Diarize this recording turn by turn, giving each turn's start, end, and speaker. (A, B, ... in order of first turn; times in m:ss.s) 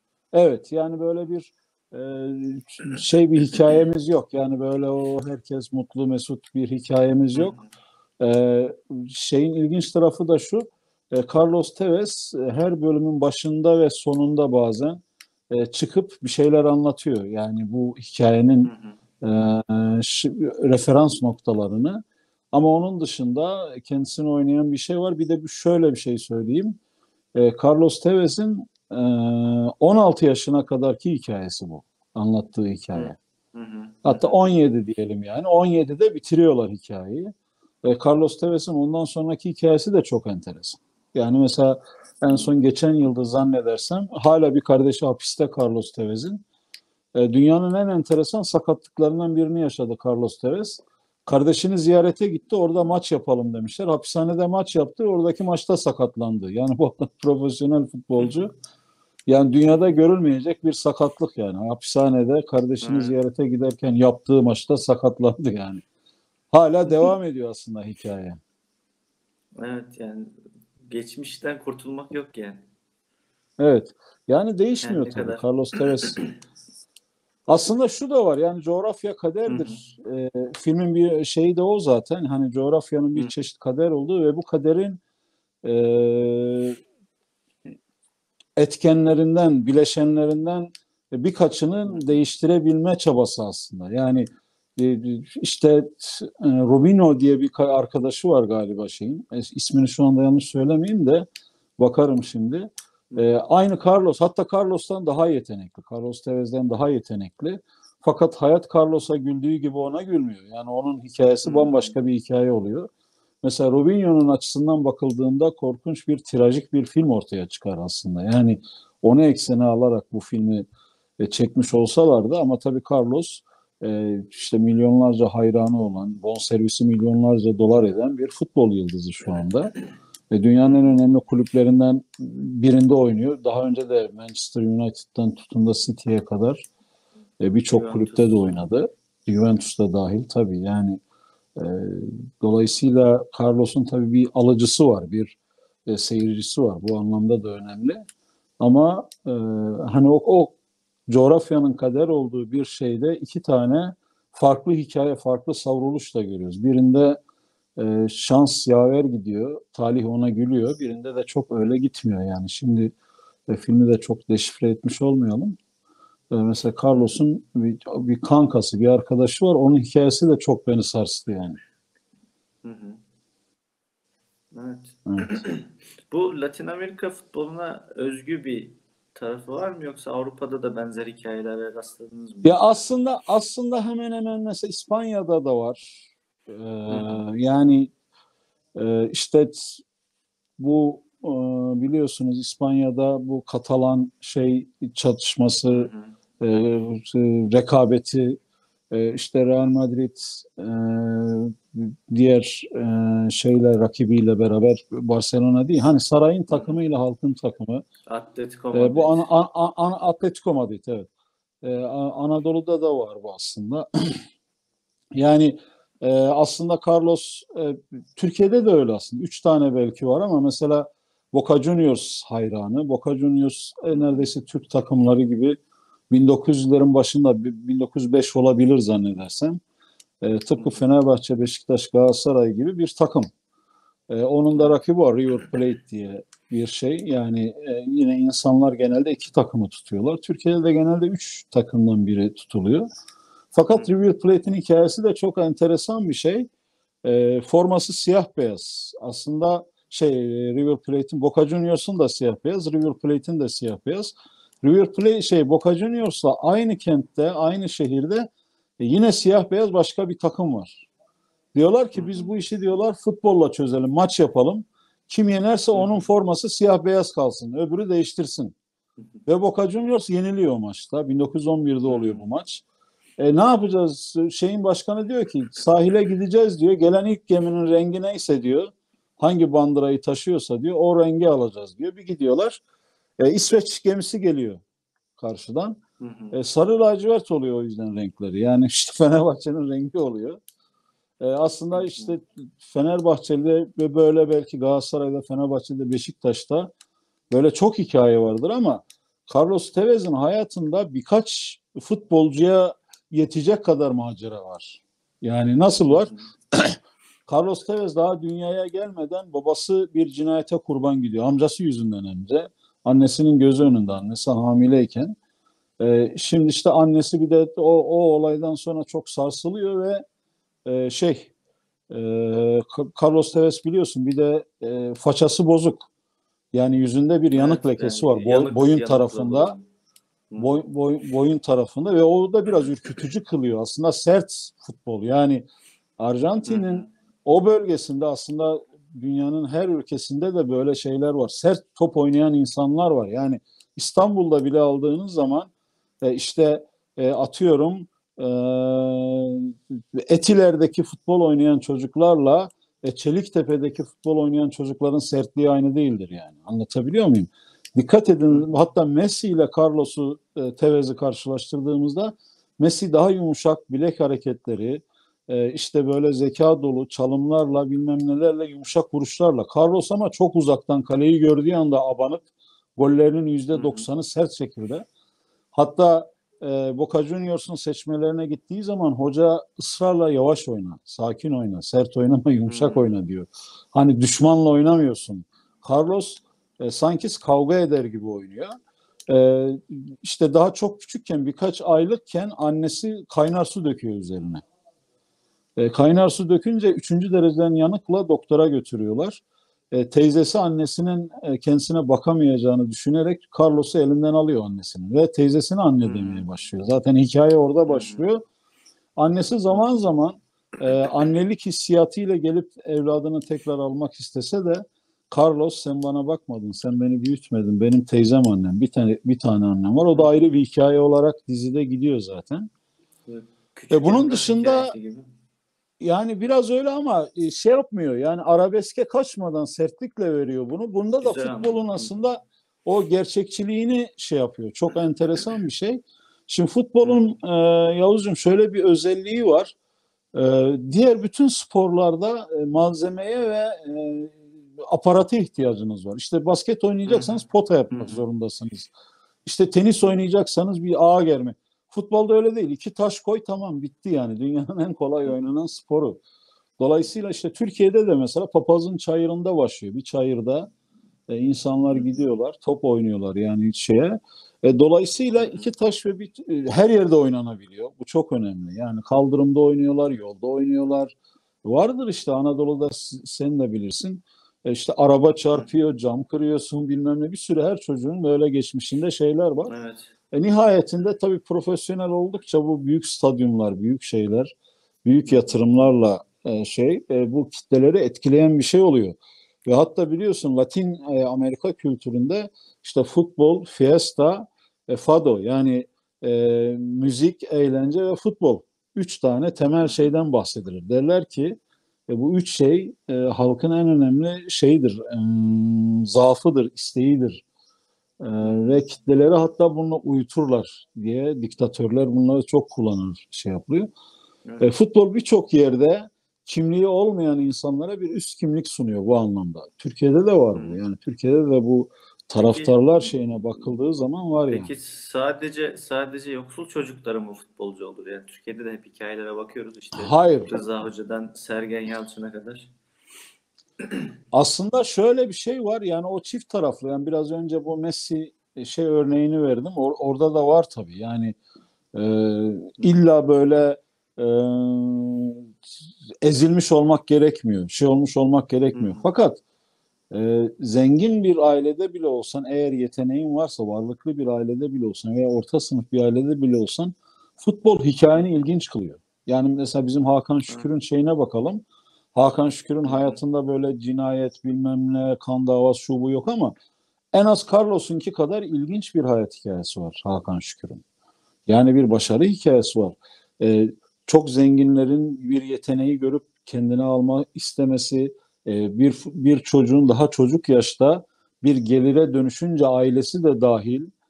0:00.3-0:07.6 A
0:07.4-0:07.6 B
0:08.2-0:26.8 A
0:18.6-0:19.0 B
0:27.3-0:33.2 A
0:32.9-0:34.3 B
0:34.0-0:46.4 A
0:47.1-0:58.5 A
0:59.3-1:05.8 A
1:02.8-1:03.1 B
1:06.5-1:08.4 A
1:09.6-1:12.6 B
1:13.6-1:16.2 A
1:14.8-1:15.4 B
1:17.5-1:25.0 A
1:19.5-1:19.8 B
1:25.6-1:26.8 A
1:28.6-1:41.2 A
1:41.8-1:52.9 A
1:51.4-1:51.9 B
1:53.4-2:00.7 A
2:01.2-2:09.7 A
2:10.3-2:16.6 A
2:17.4-2:21.0 A
2:17.7-2:18.5 B
2:21.6-2:25.4 A
2:25.9-2:28.0 A
2:28.6-2:30.5 A
2:31.1-2:37.2 A
2:37.8-2:42.9 A
2:43.5-2:45.6 A
2:46.3-2:51.6 A
2:52.6-2:53.0 B
2:54.5-3:02.6 B
2:55.1-2:55.4 A
3:02.4-3:07.9 A
3:06.9-3:07.2 B
3:08.7-3:09.8 A
3:10.6-3:15.9 A
3:15.7-3:16.1 B
3:16.4-3:18.4 A
3:18.9-3:27.8 A
3:28.1-3:29.3 B
3:28.7-3:31.1 A
3:31.6-3:34.2 A
3:35.2-3:45.6 A
3:43.9-3:44.3 B
3:46.1-3:49.6 A
3:50.2-3:53.3 A
3:54.1-4:02.9 A
4:03.5-4:06.5 A
4:07.0-4:14.1 A
4:14.6-4:20.8 A
4:21.5-4:28.5 A
4:21.9-4:22.3 B
4:25.7-4:26.1 B
4:29.2-4:32.6 A
4:31.9-4:32.2 B
4:33.2-4:42.6 A
4:43.2-4:44.6 A
4:45.2-4:45.8 A
4:46.0-4:46.3 B
4:46.3-4:50.4 A
4:51.2-4:56.7 A
4:51.7-4:52.1 B
4:57.3-5:15.2 A
5:05.9-5:06.2 B
5:15.8-5:20.0 A
5:20.6-5:21.3 A
5:21.9-5:25.8 A
5:26.5-5:29.5 A
5:27.3-5:29.6 B
5:30.4-5:35.5 A
5:36.0-5:45.5 A
5:36.5-5:36.9 B
5:46.0-6:14.8 A
6:13.5-6:13.8 B
6:15.5-6:28.5 A
6:22.5-6:22.8 B
6:29.1-6:34.4 A
6:35.6-6:48.2 A
6:45.8-6:46.2 B
6:47.7-6:48.0 B
6:49.0-7:02.5 A
7:03.1-7:05.1 B
7:03.7-7:04.7 A
7:05.8-7:19.5 A
7:11.0-7:11.9 B
7:20.1-7:28.7 A
7:26.8-7:27.2 B
7:27.7-7:28.0 B
7:29.2-7:36.0 A
7:36.6-7:40.5 A
7:41.1-7:59.5 A
7:45.2-7:45.5 B
7:59.5-7:59.9 B
8:00.1-8:04.3 A
8:04.8-8:27.2 A
8:05.1-8:05.4 B
8:28.0-8:33.7 A
8:28.2-8:28.6 B
8:34.4-8:44.5 A
8:42.2-8:42.9 B
8:44.3-8:52.5 B
8:49.7-8:50.4 A
8:54.1-9:01.2 A
9:01.7-9:05.3 A
9:06.0-9:09.2 A
9:08.5-9:08.8 B
9:09.9-9:21.4 A
9:21.9-9:26.3 A
9:22.6-9:23.0 B
9:26.9-9:30.6 A
9:31.3-9:43.7 A